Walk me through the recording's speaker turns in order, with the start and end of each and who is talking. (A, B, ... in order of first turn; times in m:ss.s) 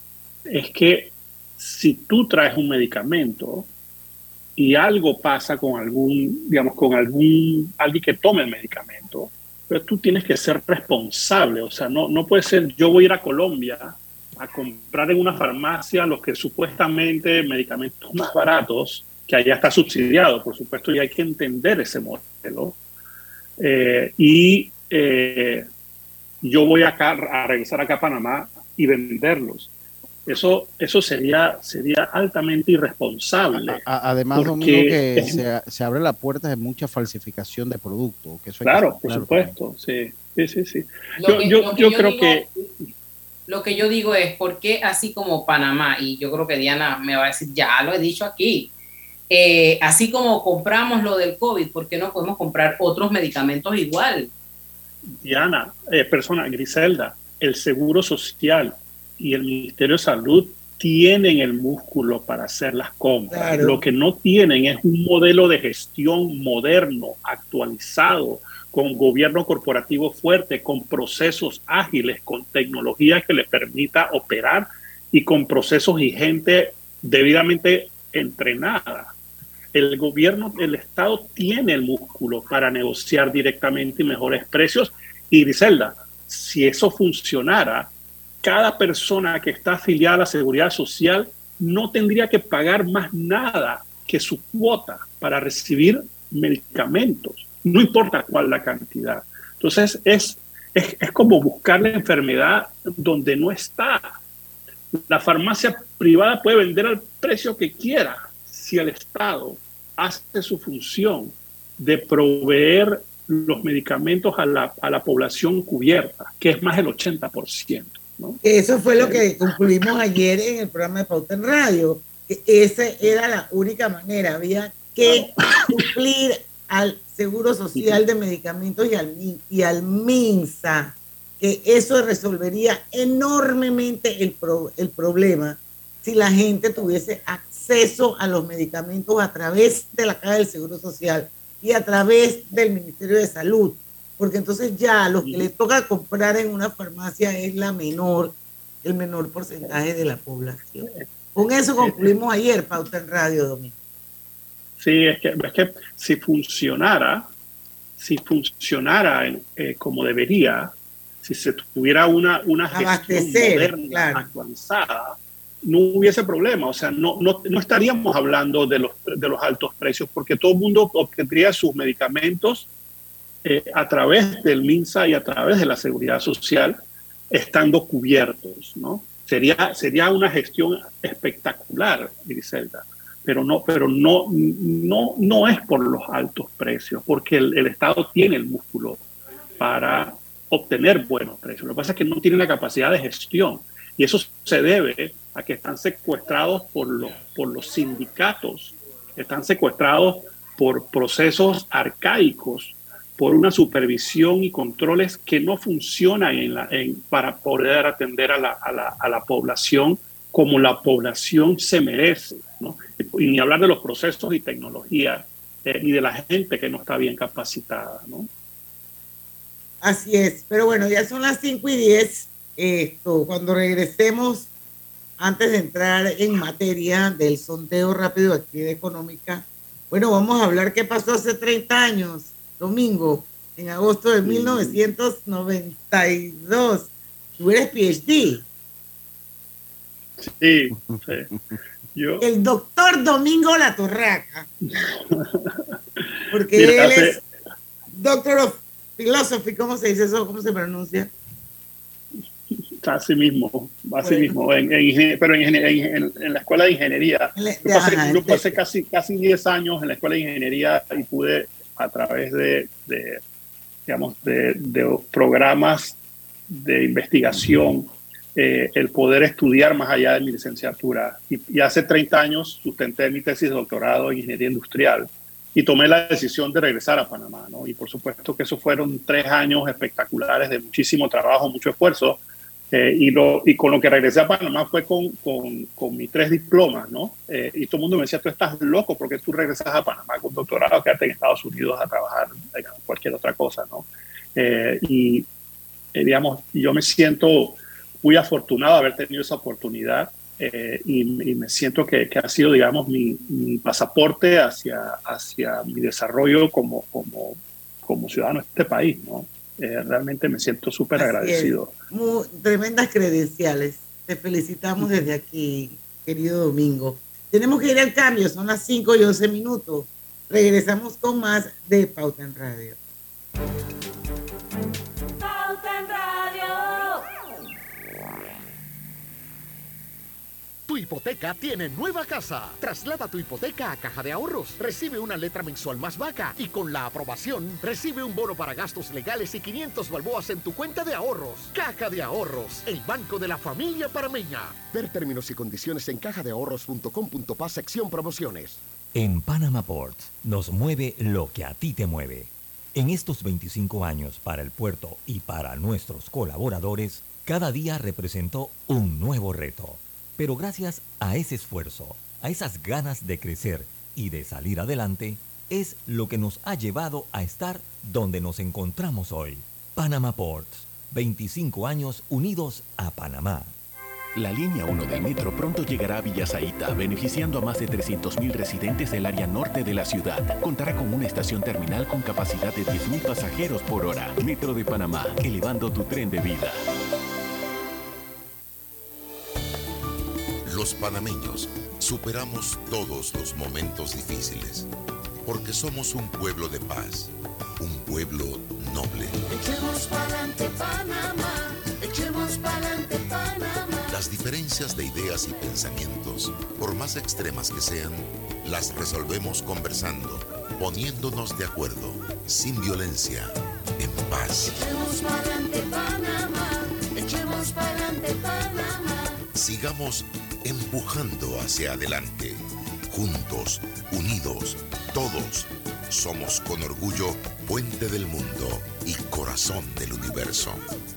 0:00.5-0:03.7 A
0:04.6-0:22.8 A
0:23.6-0:25.7 A
0:26.4-0:29.7 A
0:30.3-0:33.8 A
0:33.6-0:39.6 B
0:34.4-0:35.4 A
0:38.6-0:42.9 A
0:41.2-0:42.5 C
0:43.5-0:48.7 C
0:49.3-0:54.3 C
0:55.1-1:19.1 A
1:03.3-1:03.8 D
1:19.7-1:27.9 A
1:28.4-1:44.1 A
1:45.0-1:58.4 A
1:58.4-2:33.7 D
1:59.0-1:59.3 A
2:05.0-2:05.3 A
2:07.8-2:08.0 A
2:25.2-2:25.5 A
2:31.8-2:32.1 A
2:34.8-2:37.3 A
2:38.0-2:52.7 A
2:42.7-2:44.2 D
2:53.4-2:56.8 A
2:57.3-3:09.0 A
3:09.6-3:38.3 A
3:39.8-3:44.5 D
3:45.2-3:58.5 D
3:54.2-3:54.8 A
4:00.2-4:01.3 A
4:00.8-4:01.6 B
4:02.0-4:02.3 A
4:02.2-4:04.5 D
4:04.8-4:07.2 A
4:06.3-4:07.2 D
4:07.9-4:11.1 D
4:12.8-4:23.2 A
4:14.0-4:14.3 D
4:17.4-4:18.6 D
4:23.9-4:26.0 A
4:26.5-4:42.2 A
4:42.7-4:55.3 A
4:55.9-5:11.7 A
5:11.0-5:22.8 D
5:30.7-5:48.6 E
5:48.9-6:13.6 F
6:14.2-6:26.6 G
6:30.5-6:34.7 H
6:35.2-6:39.2 H
6:39.3-6:43.9 I
6:43.9-6:54.6 H
6:54.5-6:59.2 I
6:59.3-7:10.7 H